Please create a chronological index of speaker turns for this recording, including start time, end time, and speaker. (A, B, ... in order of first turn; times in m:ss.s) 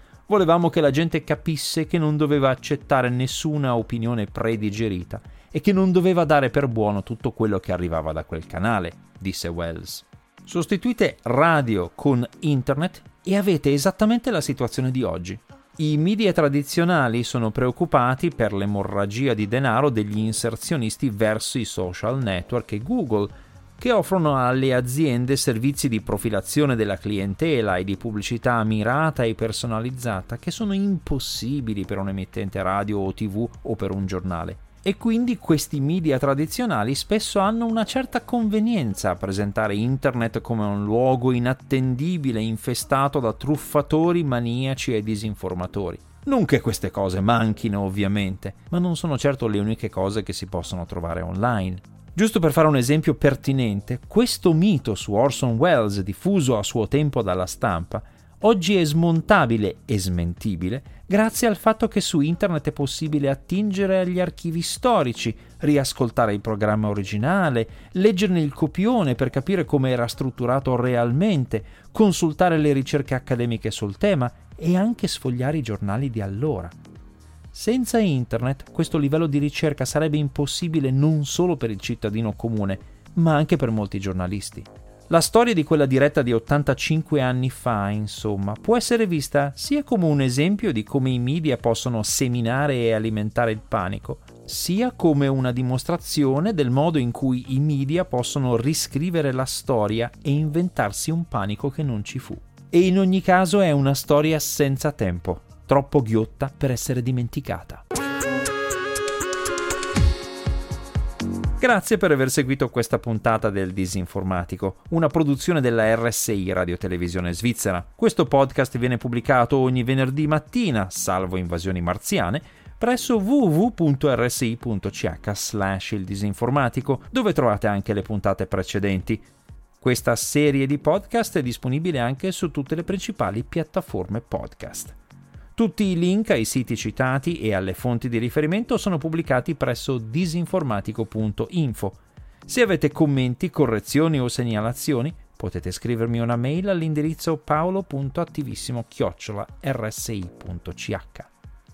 0:00.3-1:16.8 A
1:17.5-1:47.8 A
1:51.6-2:09.3 A
2:09.8-2:15.0 A
2:15.6-2:31.3 A